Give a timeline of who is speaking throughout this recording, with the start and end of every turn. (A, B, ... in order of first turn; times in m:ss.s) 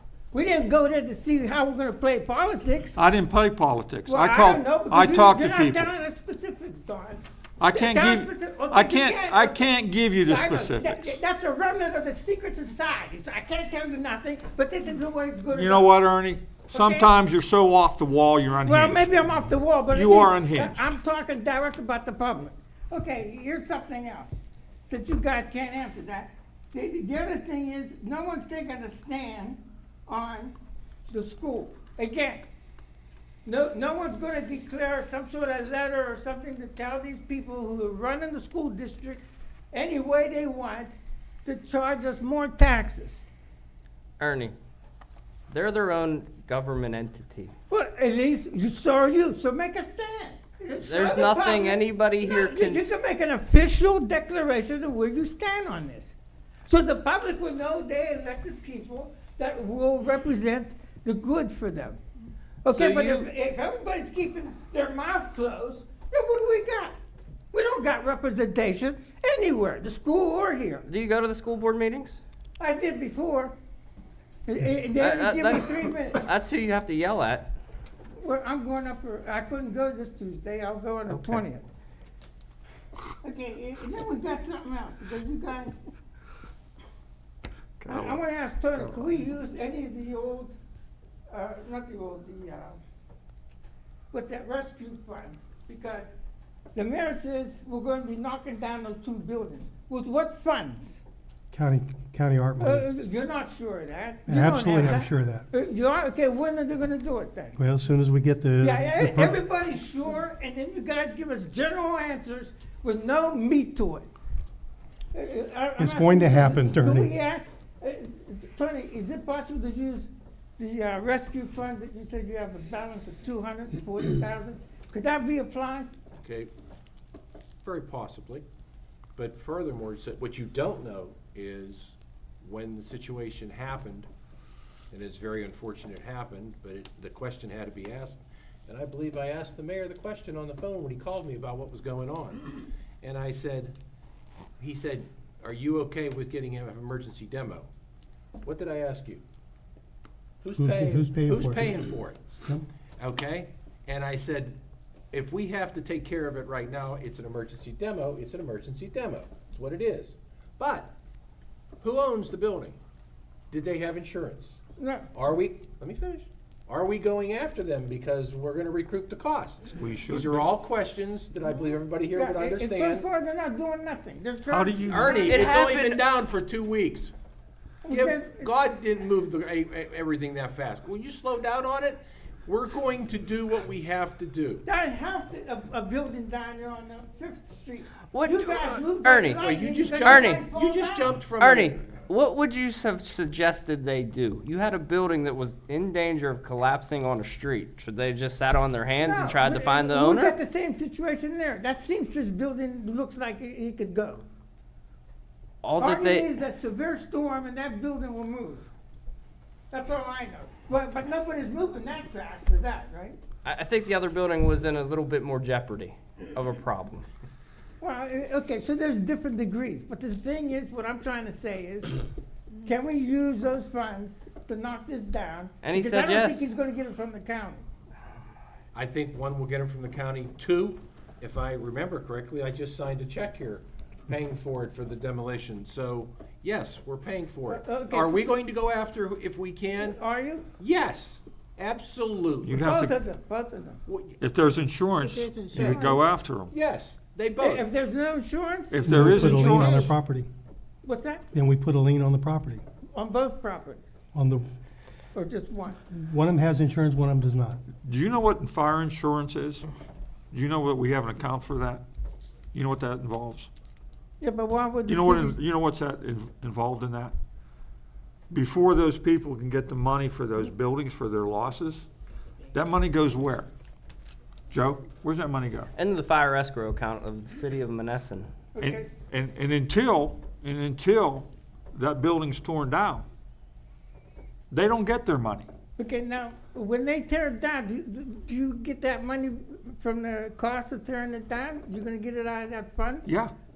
0:00.3-0:03.0 A
0:03.0-0:05.9 B
0:04.1-0:16.0 A
0:07.6-0:11.2 B
0:15.5-0:21.0 B
0:16.7-0:17.1 A
0:18.6-0:24.3 A
0:24.9-0:30.6 A
0:31.1-0:32.4 A
0:33.4-0:43.2 A
0:44.2-0:44.6 C
0:45.5-0:47.5 C
0:47.7-0:56.2 A
0:50.8-0:53.0 C
0:56.7-1:02.0 A
1:02.6-1:07.0 A
1:02.8-1:03.1 D
1:02.8-1:03.3 C
1:07.5-1:10.9 A
1:10.9-1:12.2 C
1:12.6-1:13.5 A
1:14.5-1:16.3 A
1:15.0-1:17.5 C
1:18.2-1:21.7 A
1:21.1-1:21.4 C
1:23.2-1:25.8 A
1:27.8-1:28.2 B
1:27.9-1:30.5 A
1:28.8-1:29.0 B
1:31.3-1:32.8 A
1:34.1-1:36.1 A
1:36.7-1:41.0 A
1:41.5-1:42.9 E
1:42.6-1:47.6 A
1:44.3-1:45.5 E
1:47.6-1:49.4 E
1:48.6-1:54.1 A
1:55.1-2:05.9 A
1:55.8-1:57.1 E
2:06.2-2:06.5 D
2:07.6-2:08.4 D
2:09.2-2:14.1 D
2:14.9-2:22.5 D
2:23.0-2:23.8 D
2:24.6-2:27.7 D
2:28.4-2:29.2 D
2:30.4-2:32.2 D
2:30.6-2:31.8 E
2:33.0-2:34.6 D
2:35.1-2:40.9 D
2:41.8-2:42.8 D
2:43.5-2:44.6 D
2:44.8-2:45.1 A
2:45.1-2:53.1 D
2:49.7-2:50.5 B
2:52.1-2:55.6 A
2:54.5-2:55.2 B
2:54.9-2:57.1 D
2:54.9-2:56.1 C
2:57.8-2:58.5 A
2:57.9-3:04.6 D
3:04.6-3:11.2 A
3:08.1-3:09.4 C
3:09.4-3:12.1 D
3:10.0-3:10.4 C
3:11.4-3:20.4 C
3:19.0-3:24.2 A
3:25.6-3:26.3 C
3:25.8-3:28.7 A
3:29.7-3:33.2 A
3:33.4-3:37.1 C
3:37.8-3:42.0 A
3:42.6-3:47.6 A
3:45.6-3:46.5 C
3:48.7-4:00.0 D
3:57.5-3:58.2 A
3:59.8-4:00.5 A
4:00.6-4:02.6 D
4:02.4-4:03.0 B
4:02.5-4:03.8 A
4:03.9-4:04.2 D
4:04.2-4:06.5 B
4:06.5-4:07.7 D
4:07.4-4:09.9 A
4:08.7-4:09.9 B
4:08.9-4:10.3 E
4:10.8-4:11.2 A
4:11.3-4:12.6 E
4:12.9-4:13.9 A
4:14.1-4:14.5 E
4:15.1-4:15.8 A
4:15.9-4:17.6 E
4:17.8-4:19.7 B
4:20.3-4:21.8 B
4:22.5-4:23.5 B
4:24.2-4:25.4 A
4:24.9-4:27.2 B
4:28.3-4:31.9 B
4:32.5-4:33.5 B
4:34.5-4:35.7 B
4:35.8-4:38.3 C
4:38.6-4:38.9 A
4:38.6-4:43.1 B
4:44.5-4:45.5 B
4:45.8-4:53.1 A
4:53.0-4:53.3 B